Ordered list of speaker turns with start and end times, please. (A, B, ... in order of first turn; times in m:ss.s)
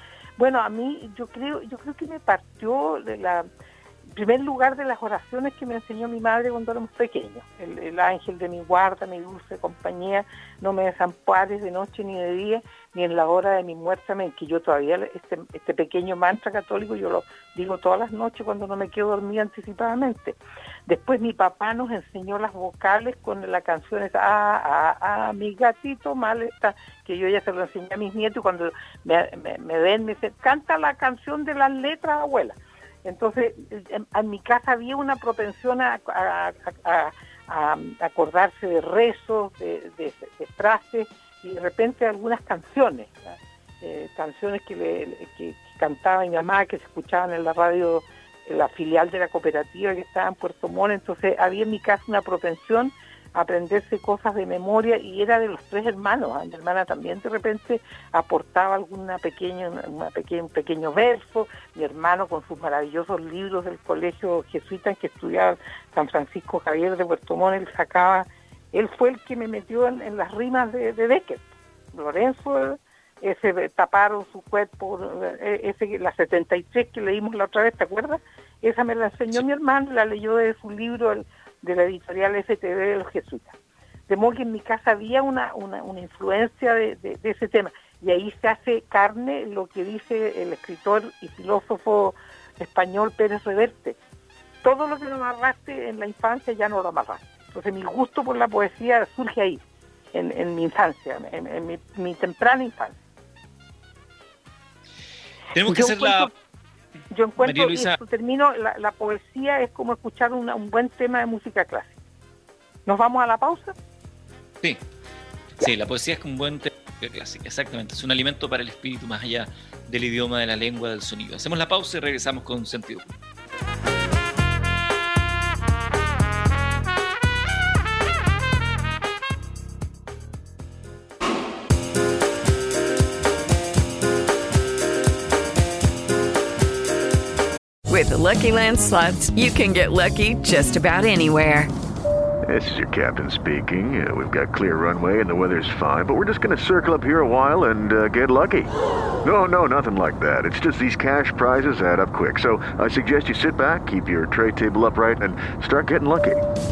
0:00.4-0:03.5 A
0:04.1-1:23.5 A
1:24.1-1:34.0 A
1:34.6-1:39.6 A
1:40.1-1:43.0 A
1:45.5-1:46.3 B
1:45.6-1:46.3 A
1:47.1-1:52.0 A
1:47.4-1:48.0 B
1:52.9-1:53.7 A
1:55.6-2:03.1 B
2:17.9-2:21.7 C
2:22.5-2:28.7 D
2:29.2-2:36.4 D